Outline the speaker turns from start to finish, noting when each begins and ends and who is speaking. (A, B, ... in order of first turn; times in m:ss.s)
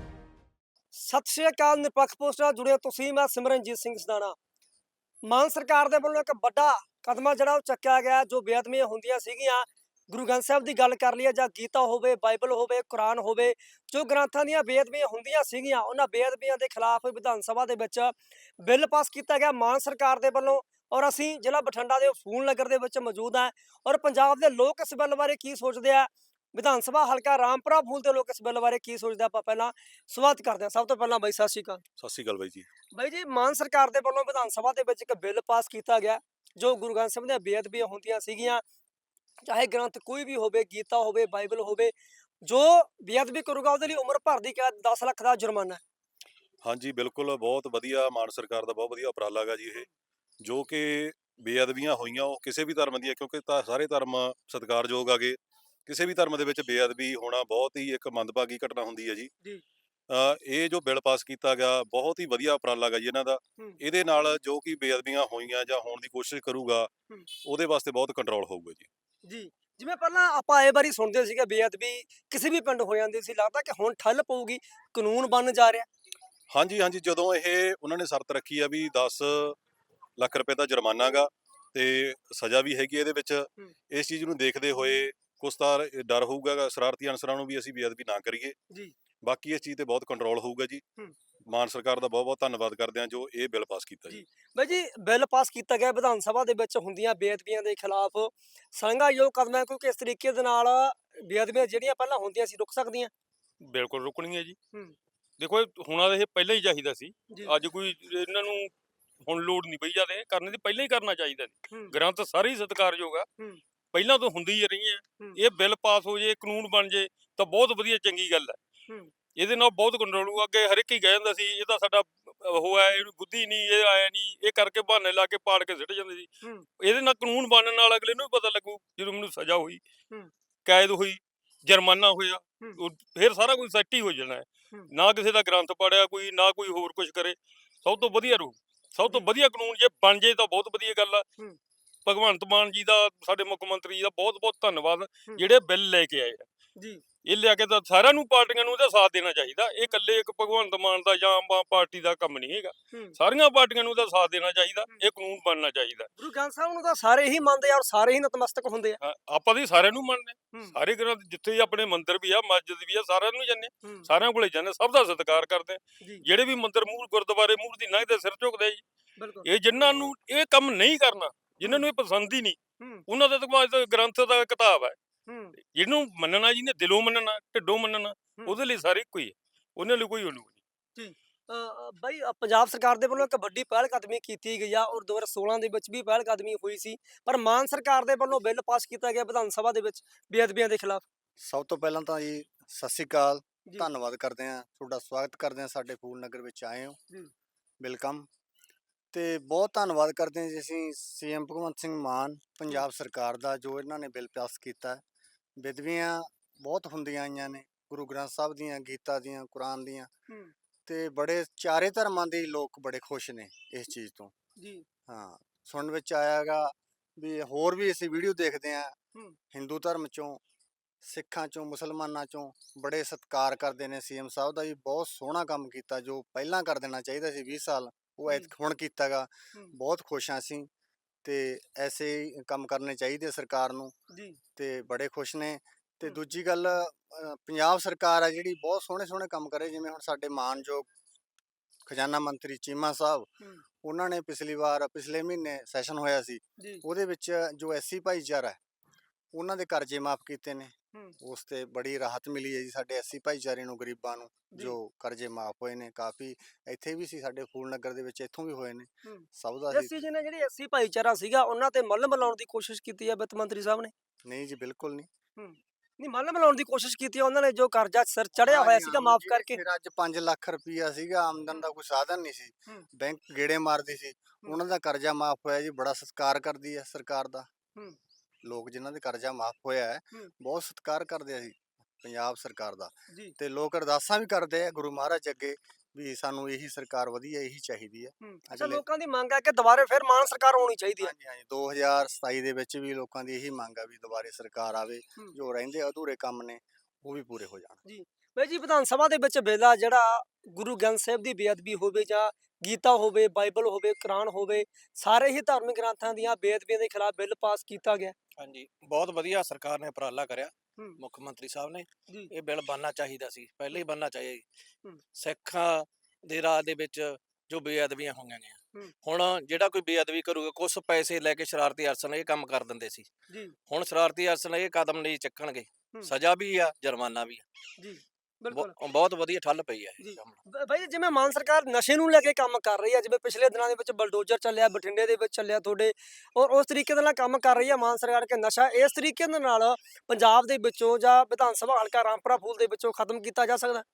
0:01.0-0:04.4 A
0:05.3-0:31.8 A
0:32.0-0:32.7 B
0:32.9-0:38.6 A
0:39.4-0:41.9 A
0:42.4-0:45.8 A
0:46.6-0:49.9 B
0:50.4-0:59.3 B
1:00.1-1:06.9 B
1:07.4-1:08.9 B
1:09.3-1:15.9 A
1:16.5-1:19.6 B
1:20.2-1:28.6 B
1:29.2-1:30.8 B
1:31.5-1:34.2 B
1:34.1-1:43.1 A
1:43.6-1:44.6 C
1:45.4-1:48.7 C
1:49.3-1:53.3 C
1:53.9-1:58.6 C
1:59.4-2:06.3 C
2:06.4-2:06.7 A
2:06.8-2:09.8 C
2:10.6-2:21.2 C
2:22.1-2:26.5 C
2:27.3-2:36.1 C
2:36.2-2:39.0 A
2:39.0-2:48.8 C
2:49.2-2:49.5 A
2:49.4-2:55.0 C
2:52.8-2:53.0 A
2:55.3-2:55.5 A
2:55.6-3:00.6 C
3:01.0-3:11.0 A
3:11.4-3:17.0 D
3:17.8-3:18.3 D
3:19.1-3:25.0 D
3:25.6-3:30.1 D
3:30.9-3:34.3 D
3:34.6-3:34.8 A
3:35.1-3:39.0 D
3:39.5-3:40.4 D
3:41.0-3:50.7 D
3:51.2-3:53.9 D
3:54.1-3:54.4 A
3:54.6-4:00.9 D
4:01.9-4:03.3 D
4:03.8-4:08.6 D
4:09.3-4:20.0 D
4:19.0-4:23.9 A
4:24.2-4:25.1 D
4:25.4-4:29.6 A
4:28.4-4:37.5 D
4:38.4-4:48.8 D
4:48.2-4:51.1 A
4:51.0-4:57.8 D
4:57.9-5:08.2 A
5:08.4-5:14.4 E
5:15.2-5:23.1 E
5:23.3-5:23.6 A
5:23.7-5:27.4 E
5:27.8-5:28.8 A
5:28.5-5:30.4 E
5:30.0-5:43.8 A